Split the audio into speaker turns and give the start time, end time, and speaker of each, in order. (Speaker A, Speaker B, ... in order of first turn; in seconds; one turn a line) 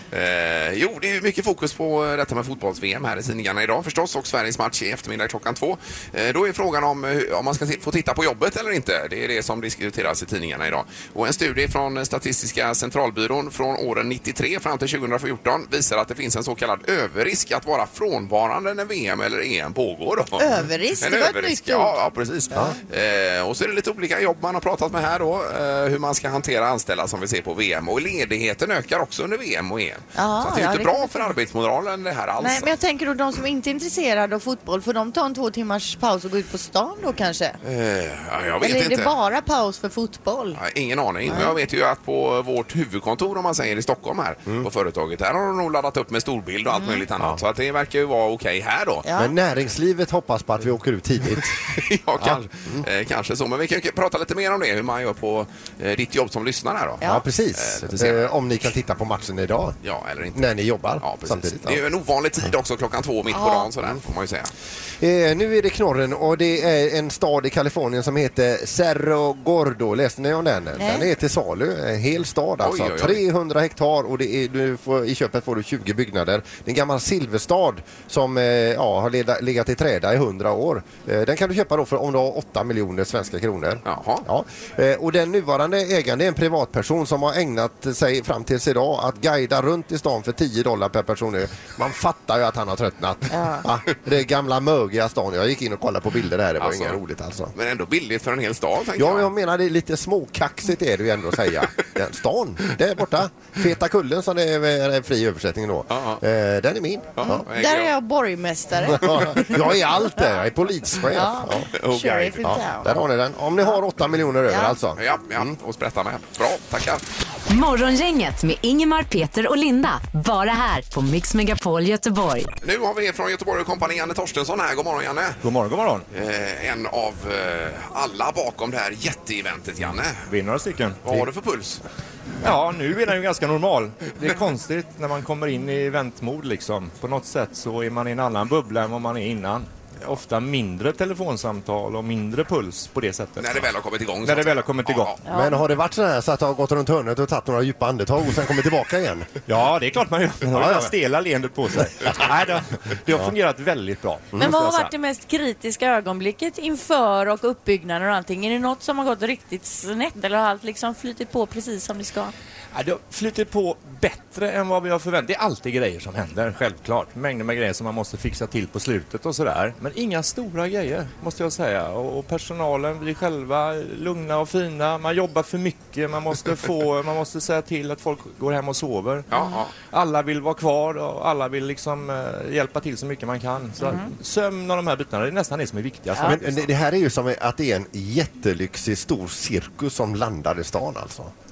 Speaker A: 0.1-32.7
Speaker B: 20.4-22.0
Speaker B: 30.1-31.4
Speaker B: 32.4-37.6
Speaker A: 37.6-39.1
Speaker B: 38.6-40.6
Speaker A: 40.5-49.0
Speaker B: 41.2-41.6
Speaker B: 46.7-47.0
Speaker B: 49.0-49.3
Speaker C: 49.1-51.6
Speaker A: 51.7-57.0
Speaker C: 52.2-52.9
Speaker C: 57.0-59.8
Speaker A: 57.5-58.3
Speaker A: 59.8-64.5
Speaker C: 60.3-61.8
Speaker B: 63.3-63.7
Speaker C: 65.0-97.5
Speaker B: 70.8-71.1
Speaker A: 72.6-73.2
Speaker A: 83.8-84.3
Speaker B: 93.3-93.7
Speaker A: 96.6-97.0
Speaker A: 97.5-99.3
Speaker C: 99.0-107.4
Speaker A: 105.9-106.2
Speaker A: 107.2-107.9
Speaker B: 107.2-109.7
Speaker C: 108.9-111.7
Speaker A: 109.0-109.4
Speaker B: 111.1-113.0
Speaker A: 111.8-112.7
Speaker C: 112.4-115.5
Speaker B: 114.5-114.8
Speaker A: 115.0-117.0
Speaker D: 117.5-122.5
Speaker A: 122.6-125.4
Speaker E: 125.4-126.0
Speaker A: 126.1-130.2
Speaker E: 130.3-131.3
Speaker A: 131.1-131.8
Speaker E: 132.4-143.7
Speaker A: 143.4-145.2
Speaker E: 144.2-145.2
Speaker F: 145.3-145.6
Speaker C: 145.3-149.3
Speaker E: 149.5-154.9
Speaker C: 150.5-150.9
Speaker C: 151.8-152.2
Speaker F: 154.4-162.3
Speaker E: 162.7-179.3
Speaker A: 179.3-179.7
Speaker E: 179.8-186.6
Speaker F: 183.8-184.1
Speaker C: 186.2-191.3